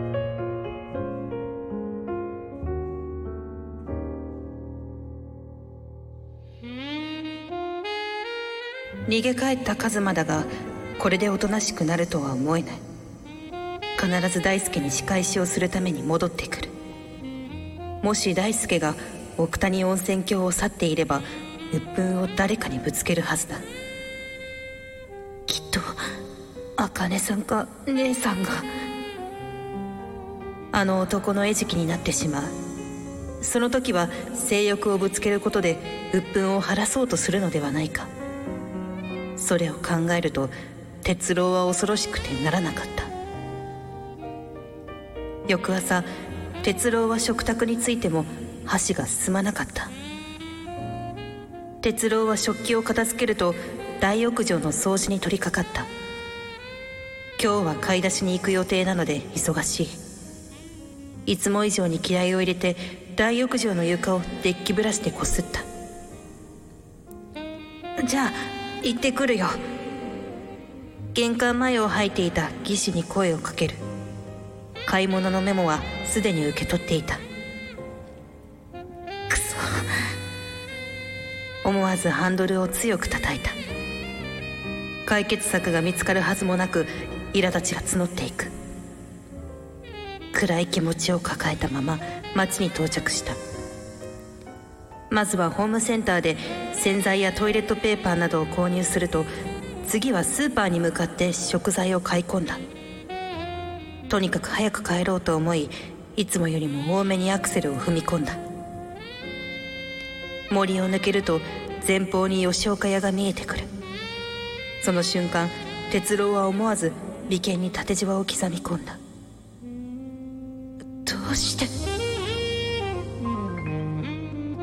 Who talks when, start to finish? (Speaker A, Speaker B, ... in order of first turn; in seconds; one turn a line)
Speaker A: 9.1-12.8
Speaker A: 14.0-16.7
Speaker A: 18.0-23.6
Speaker A: 25.5-26.0
Speaker A: 26.8-28.7
Speaker A: 30.7-32.5
Speaker A: 33.4-38.1
Speaker A: 39.4-43.1
Speaker A: 45.5-46.1
Speaker A: 46.6-49.9
Speaker A: 51.8-55.9
Speaker A: 57.4-60.0
Speaker A: 61.2-65.6
Speaker A: 68.0-69.6
Speaker A: 71.1-73.8
Speaker A: 74.9-77.2
Speaker A: 79.3-79.9
Speaker A: 81.6-83.5
Speaker A: 85.1-88.5
Speaker A: 90.3-93.4
Speaker A: 95.1-99.3
Speaker A: 99.8-102.6
Speaker A: 104.1-108.4
Speaker A: 110.5-113.7
Speaker A: 114.8-119.0
Speaker A: 121.0-121.7